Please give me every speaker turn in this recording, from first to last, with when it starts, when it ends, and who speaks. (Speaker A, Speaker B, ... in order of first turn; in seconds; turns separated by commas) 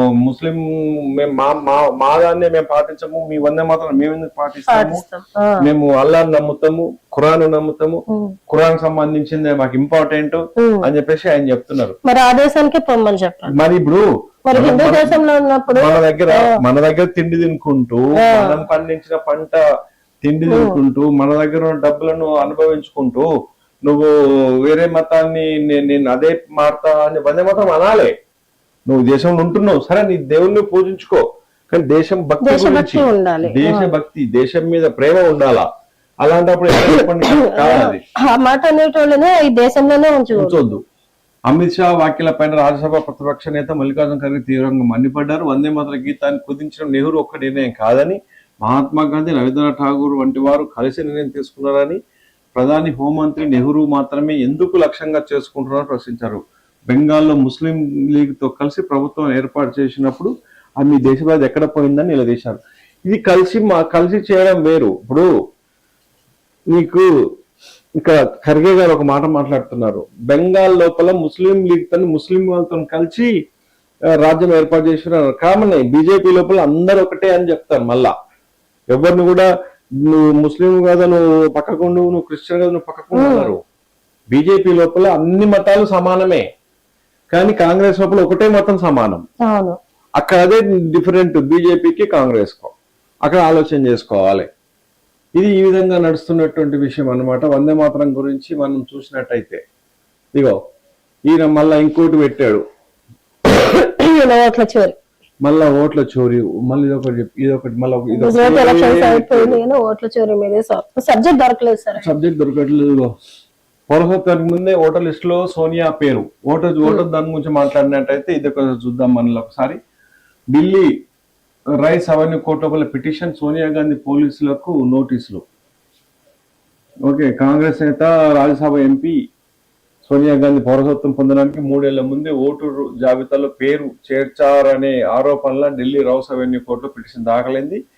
Speaker A: 0.2-5.0, Speaker B: 4.7-5.6, Speaker A: 5.6-12.0, Speaker B: 8.1-8.4, Speaker B: 10.6-10.8, Speaker B: 12.0-13.6, Speaker A: 13.5-15.2, Speaker B: 14.5-16.5, Speaker A: 15.7-19.6, Speaker B: 18.1-18.6, Speaker A: 20.2-23.3, Speaker B: 20.5-20.8, Speaker A: 23.9-24.1, Speaker A: 24.6-28.1, Speaker A: 28.9-35.6, Speaker B: 32.4-33.9, Speaker A: 36.2-38.0, Speaker B: 37.0-40.6, Speaker A: 40.3-40.8, Speaker A: 41.5-52.0, Speaker A: 52.5-65.3, Speaker A: 66.7-67.1, Speaker A: 68.0-73.3, Speaker A: 74.2-78.1, Speaker A: 78.9-79.5, Speaker A: 80.0-83.6, Speaker B: 83.1-83.5, Speaker A: 84.3-86.5, Speaker A: 87.3-89.2, Speaker B: 89.4-89.8, Speaker A: 90.2-94.5, Speaker A: 95.4-99.6, Speaker A: 101.3-102.6, Speaker B: 103.6-105.0, Speaker A: 105.4-109.6, Speaker B: 108.1-112.0, Speaker A: 112.0-113.1, Speaker A: 113.9-119.8, Speaker A: 120.5-120.9, Speaker A: 121.8-125.4, Speaker A: 127.0-129.2, Speaker A: 130.0-137.8